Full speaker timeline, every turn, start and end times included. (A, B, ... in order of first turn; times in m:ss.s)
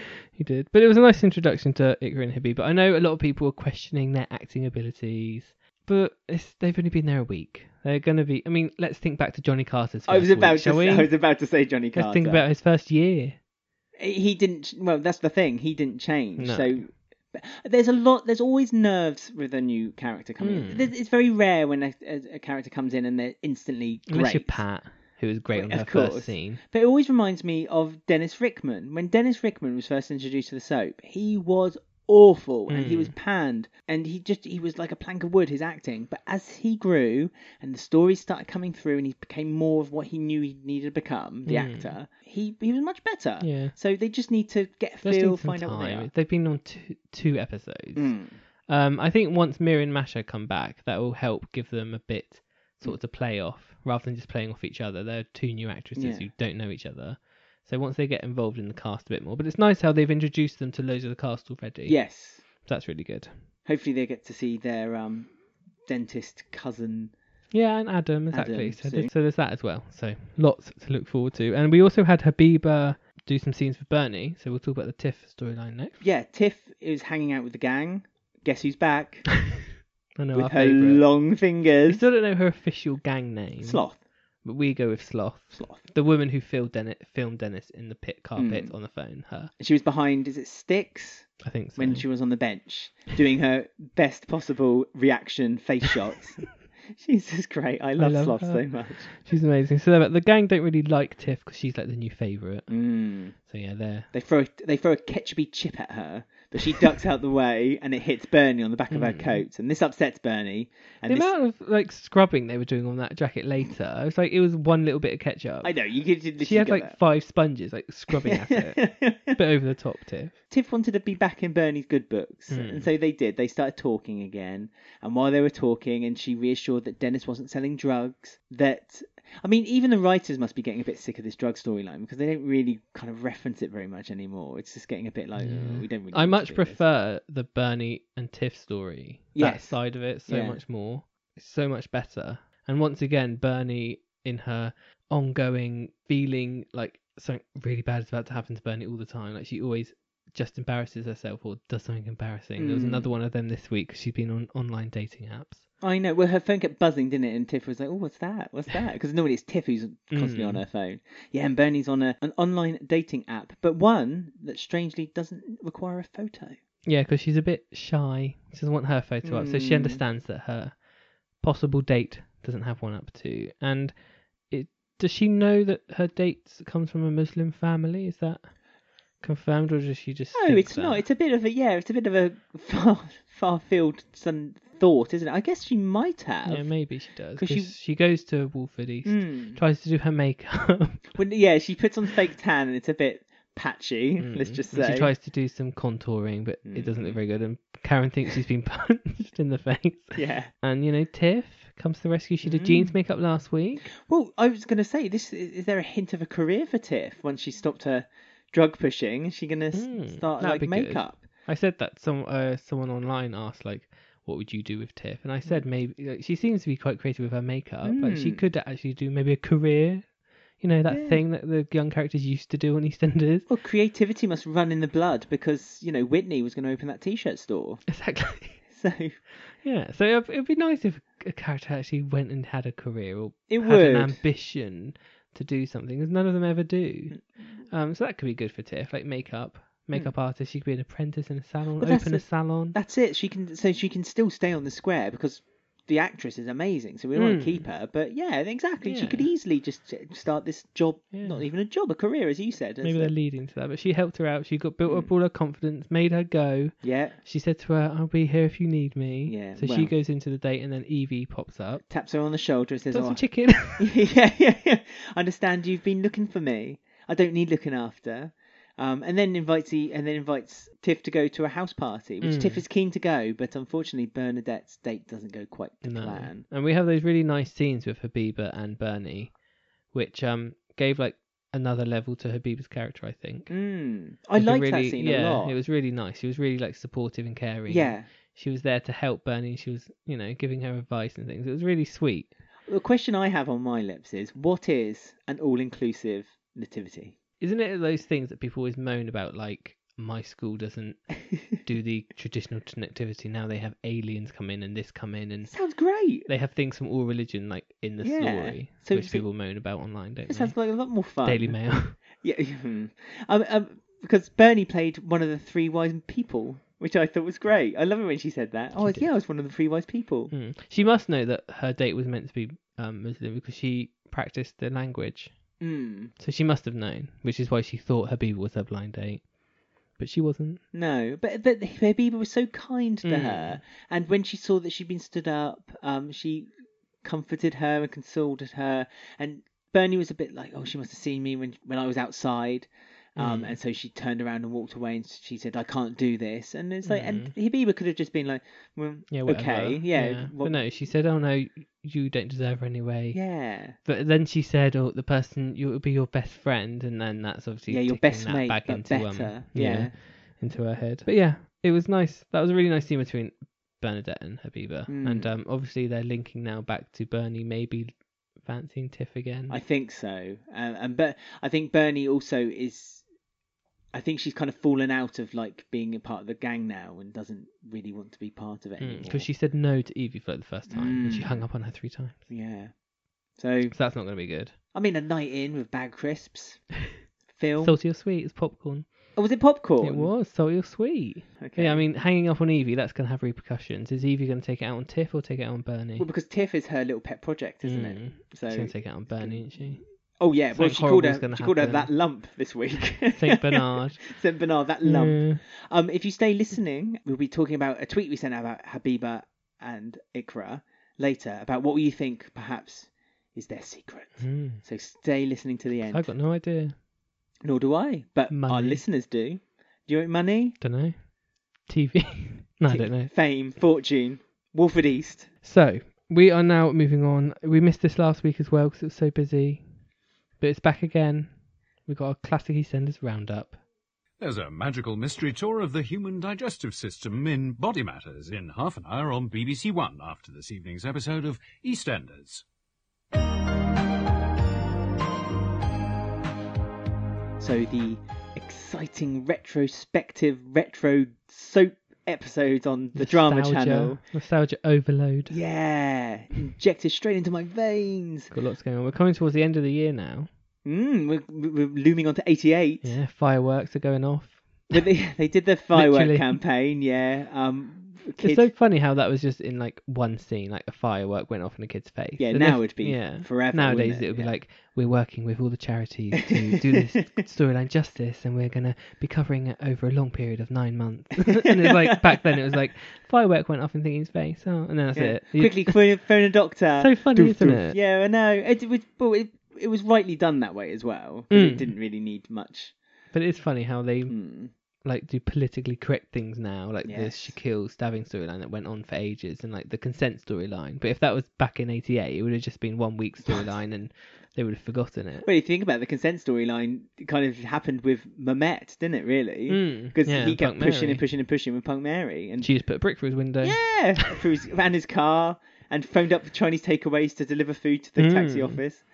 0:00.3-0:11.1 A
0:10.1-0:12.4 B
0:11.9-0:13.4 A
0:14.0-0:24.6 B
0:16.4-0:16.8 A
0:20.4-0:20.9 A
0:24.1-0:26.6 A
0:25.5-0:46.1 B
0:32.7-0:33.1 A
0:41.5-0:42.0 A
0:43.4-0:43.8 A
0:45.0-1:03.3 A
0:48.0-0:48.4 B
0:56.0-0:56.3 B
1:01.9-1:02.4 B
1:03.6-1:05.3 B
1:05.9-1:07.1 B
1:07.5-1:16.0 A
1:08.3-1:09.1 B
1:16.0-1:19.4 B
1:20.2-1:21.1 A
1:20.3-1:22.0 B
1:21.9-1:23.8 A
1:23.6-1:24.0 B
1:24.4-1:29.5 A
1:25.5-1:25.8 B
1:28.4-1:28.8 B
1:29.6-1:39.1 B
1:31.4-1:32.0 A
1:38.0-1:42.7 A
1:42.7-1:43.4 B
1:43.4-1:44.1 A
1:44.1-1:51.3 B
1:48.9-1:49.4 A
1:51.1-1:55.8 A
1:55.6-1:57.0 B
1:56.4-2:00.3 A
1:58.1-1:59.4 B
2:00.5-2:16.8 B
2:02.5-2:02.9 A
2:15.4-2:35.6 A
2:19.4-2:20.6 B
2:32.6-2:33.1 B
2:35.8-2:46.6 B
2:40.1-2:40.6 A
2:46.8-2:50.8 A
2:49.2-2:50.0 B
2:51.4-2:54.0 A
2:54.5-2:58.5 A
2:59.2-3:01.0 A
3:00.4-3:06.7 B
3:06.5-3:11.2 A
3:07.4-3:07.7 B
3:09.0-3:09.6 B
3:11.2-3:15.1 B
3:14.2-3:23.9 A
3:16.6-3:17.2 B
3:20.2-3:20.5 B
3:22.4-3:23.0 B
3:24.0-3:31.2 B
3:29.7-3:43.5 A
3:37.8-3:38.5 B
3:40.9-3:41.2 B
3:43.5-3:47.8 B
3:47.9-3:48.6 A
3:48.7-3:49.2 B
3:49.5-4:02.8 A
3:53.5-3:54.2 B
4:01.8-4:13.1 B
4:07.2-4:07.7 A
4:08.8-4:09.3 A
4:11.1-4:11.5 A
4:12.8-4:21.8 A
4:14.8-4:15.1 B
4:16.8-4:17.2 B
4:19.3-4:19.9 B
4:21.9-4:36.4 B
4:22.9-4:23.9 A
4:32.2-4:32.6 A
4:35.8-4:39.4 A
4:39.9-4:43.5 A
4:43.5-4:45.6 B
4:44.3-4:52.3 A
4:47.7-4:48.1 B
4:52.7-4:57.2 B
4:57.4-5:05.6 A
5:05.5-5:06.3 B
5:06.1-5:12.0 A
5:08.0-5:09.3 B
5:10.3-5:20.3 B
5:18.8-5:19.1 A
5:20.3-5:25.3 A
5:25.6-5:26.1 B
5:26.2-5:29.3 A
5:30.0-5:30.6 A
5:30.7-5:36.5 B
5:33.0-5:33.6 A
5:37.0-5:50.6 B
5:43.2-5:43.6 A
5:46.9-5:47.3 A
5:49.1-6:09.6 A
5:53.1-5:53.8 B
5:57.7-5:59.9 B
6:04.9-6:05.3 B
6:09.5-6:13.0 B
6:13.9-6:19.3 B
6:18.8-6:22.2 A
6:20.7-6:21.4 B
6:22.3-6:22.7 B
6:23.4-6:23.8 B
6:23.7-6:24.5 A
6:24.7-6:26.6 B
6:27.3-6:27.8 B
6:27.6-6:29.2 A
6:29.2-6:30.1 B
6:29.8-6:36.1 A
6:31.4-6:31.9 B
6:36.0-6:56.1 B
6:37.6-6:39.8 A
6:40.4-6:41.9 A
6:43.1-6:44.0 A
6:44.8-6:45.4 A
6:54.2-6:54.6 A
6:55.8-6:56.8 A
6:57.4-7:00.6 B
6:58.3-6:58.8 A
7:00.6-7:03.1 A
7:02.6-7:05.3 B
7:05.4-7:09.7 A
7:10.4-7:13.6 A
7:14.2-7:22.4 C
7:27.4-7:34.0 B
7:33.0-7:35.4 A
7:35.3-7:38.3 B
7:38.3-7:40.3 A
7:40.6-7:43.0 B
7:42.8-7:44.8 A
7:44.7-7:48.5 B
7:45.7-7:46.4 A
7:48.2-8:05.8 A
7:52.2-7:54.3 B
7:56.3-7:57.2 B
8:01.3-8:02.5 B
8:05.0-8:12.7 B
8:06.8-8:07.8 A
8:11.3-8:11.7 A
8:13.1-8:14.2 A
8:14.1-8:14.5 B
8:14.8-8:25.3 A
8:16.8-8:17.4 B
8:25.2-8:32.5 B
8:29.5-8:31.1 A
8:32.4-8:34.2 A
8:33.4-8:38.8 B
8:38.0-8:38.6 A